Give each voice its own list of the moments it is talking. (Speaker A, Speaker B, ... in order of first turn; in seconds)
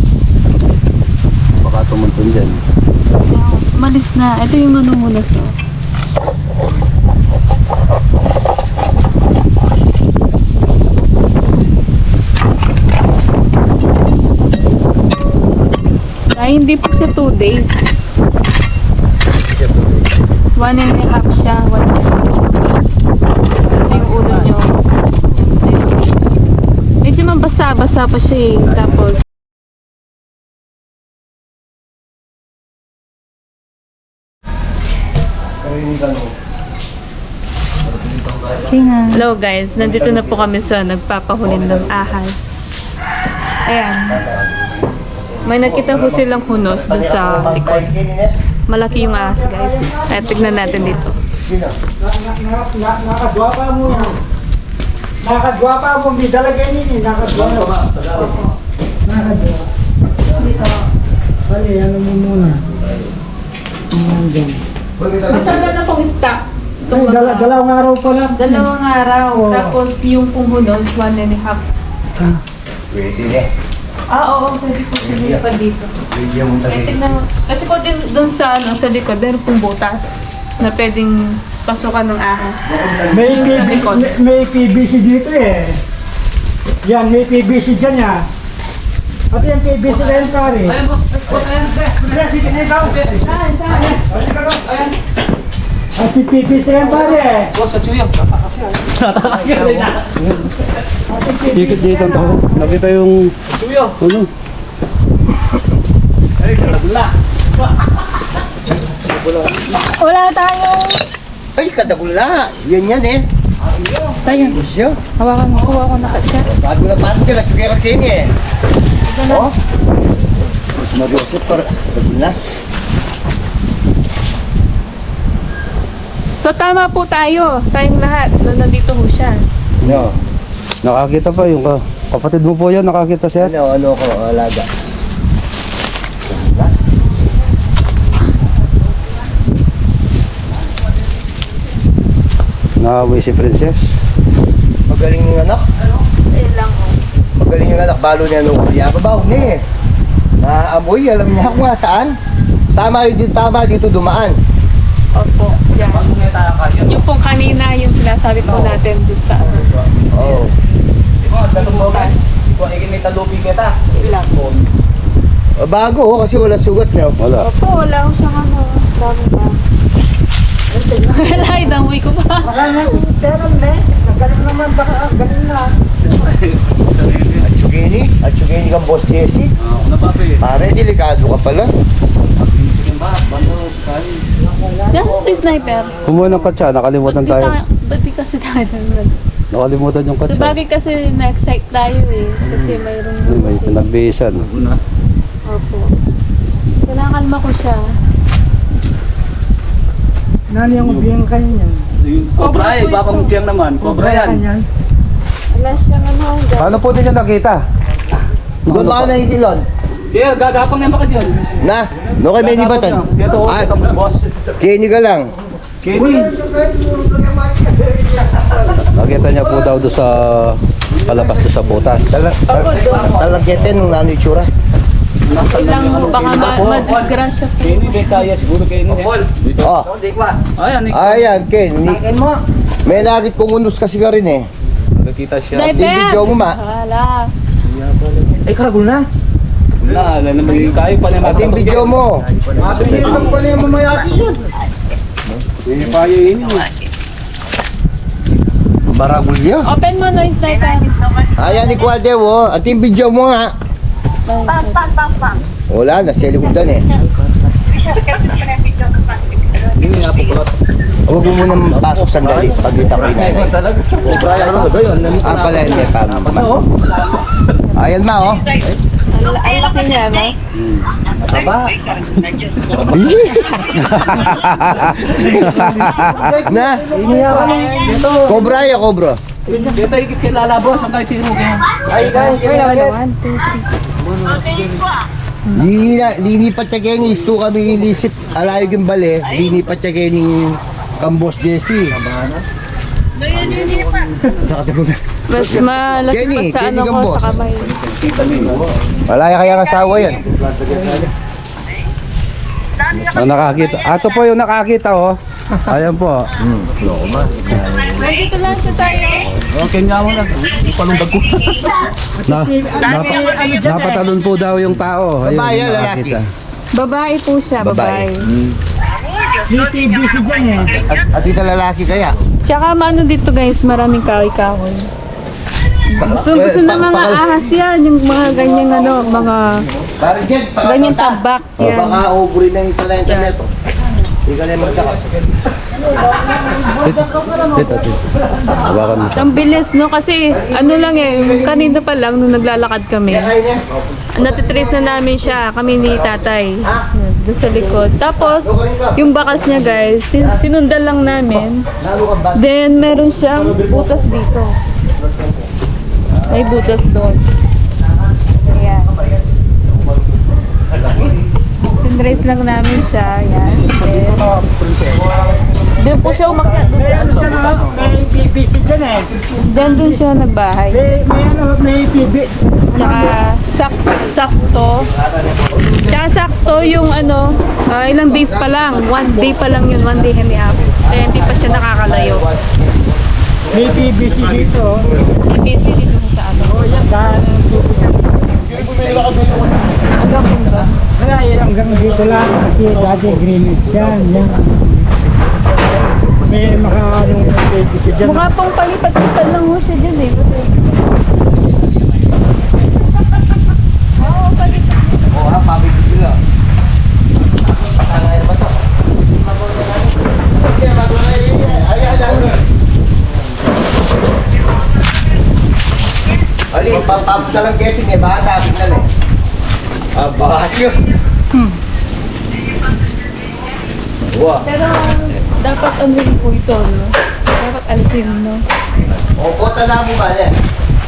Speaker A: 1.6-2.6, 99.2-100.3, 101.5-103.3, 104.0-104.3, 129.8-130.1, 130.8-133.5, 142.8-143.9, 167.2-167.5, 186.0-187.5, 189.5-190.6, 192.5-194.4, 206.6-207.6, 208.7-209.1, 218.8-222.2, 245.8-246.7, 264.1-265.1, 270.6-270.9, 273.7-276.4, 302.9-305.2, 305.7-306.3, 312.3-316.2, 336.8-338.0, 338.6-339.3
Speaker B: 3.1-5.5, 16.3-18.1, 20.6-22.6, 23.7-24.8, 25.4-26.1, 27.0-29.2, 39.0-43.0, 43.6-44.2, 45.5-47.9, 48.7-51.2, 60.3-60.9, 65.3-67.6, 68.3-71.6, 74.1-75.9, 76.7-82.7, 83.2-84.2, 109.9-111.0, 114.2-114.6, 115.2-116.5, 119.0-119.5, 126.4-129.4, 146.3-147.0, 155.1-156.1, 156.9-159.7, 161.5-162.3, 163.9-164.3, 167.4-169.6, 171.1-172.9, 184.9-186.0, 187.0-189.1, 190.3-193.8, 195.4-195.9, 196.8-197.8, 202.4-203.3, 205.5-206.9, 222.5-223.1, 225.4-228.3, 235.5-237.3, 249.7-251.0, 254.2-255.1, 269.1-270.4, 277.3-277.9, 279.5-279.8, 281.9-283.6, 295.3-297.7, 307.9-309.3, 316.7-318.2, 322.4-324.9, 325.9-329.6, 330.6-332.0, 333.1-333.4, 339.1-343.3, 344.1-351.7, 352.3-354.5, 356.3-357.2, 358.5-358.9, 361.8-364.3, 365.8-367.3, 369.4-370.8, 372.8-374.9, 375.9-382.3, 385.2-386.9, 389.9-390.7, 398.0-400.6, 404.0-405.1, 424.4-428.4
Speaker C: 35.6-36.3, 39.8-40.5, 41.4-42.2, 44.1-44.6, 45.5-48.3, 51.3-51.7, 53.9-54.2, 65.0-65.7, 72.9-73.5, 75.0-75.4, 76.1-77.1, 82.7-83.8, 111.5-113.2, 114.3-115.0, 116.4-118.3, 119.3-119.5, 120.8-122.4, 129.8-130.1, 133.4-134.7, 136.2-136.7, 144.9-145.6, 147.3-149.6, 150.4-152.1, 152.7-154.4, 160.1-160.5, 165.6-167.2, 177.4-179.5, 180.4-181.7, 208.7-209.7, 211.6-213.7, 214.6-215.3, 215.9-218.8, 222.1-224.5, 229.6-229.9, 230.9-232.1, 232.8-234.5, 235.6-236.6, 241.1-244.4, 248.9-249.7, 251.3-253.5, 255.7-256.9, 261.1-263.5, 265.2-266.5, 267.7-268.6, 272.8-273.7, 276.4-276.9, 278.2-279.2, 285.5-292.0, 294.3-297.4, 299.1-300.2, 306.4-308.1, 315.2-316.2, 317.6-318.1, 320.8-322.1, 326.0-327.2, 330.0-333.5, 334.2-335.0, 340.3-341.8, 343.1-346.9, 347.5-350.4, 351.8-352.5, 355.0-355.4, 356.1-356.7, 358.1-361.4, 374.8-375.9, 378.1-382.8, 388.3-389.5, 405.1-406.2, 407.3-412.3, 416.5-418.9, 419.9-420.9, 424.1-424.4, 429.2-430.3
Speaker D: 38.3-39.0, 57.4-58.3, 89.9-92.0, 92.8-94.1, 94.6-94.9, 96.8-100.2, 103.5-104.0, 106.4-107.1, 113.7-114.2, 155.6-157.0, 158.4-158.8, 159.4-159.8, 161.2-164.6, 176.0-177.4, 179.6-180.4, 182.3-184.2, 186.2-186.5, 194.4-194.8, 200.7-201.1, 202.0-204.4, 210.1-211.7, 212.2-214.2, 215.8-216.4, 220.9-222.1, 225.3-229.6, 230.4-231.3, 231.9-232.3, 235.0-235.9, 237.6-238.4, 239.8-243.9, 245.7-246.6, 259.6-260.5, 261.7-267.2, 271.2-273.4, 274.9-276.2, 276.9-278.5, 279.7-282.9, 284.0-284.8, 293.4-293.9, 297.7-298.7, 300.7-301.0, 309.5-311.9, 334.8-335.2, 353.5-353.9, 363.4-365.1, 366.3-367.9, 392.7-393.1
Speaker E: 48.9-51.0, 52.0-54.2, 55.2-57.7, 59.1-59.7, 61.5-62.6, 63.9-64.6, 66.9-68.7, 69.3-69.8, 83.1-85.8, 86.8-88.2, 89.3-90.8, 91.9-94.6, 96.0-97.5, 101.1-102.8, 170.7-171.8, 172.4-175.7, 184.4-186.2, 200.5-201.9, 203.8-204.7, 276.1-278.1, 279.5-279.9, 312.2-314.0, 319.4-320.8, 335.7-338.8, 366.2-370.0, 370.7-373.2, 383.5-384.9, 386.4-388.6, 391.0-394.8, 396.2-398.3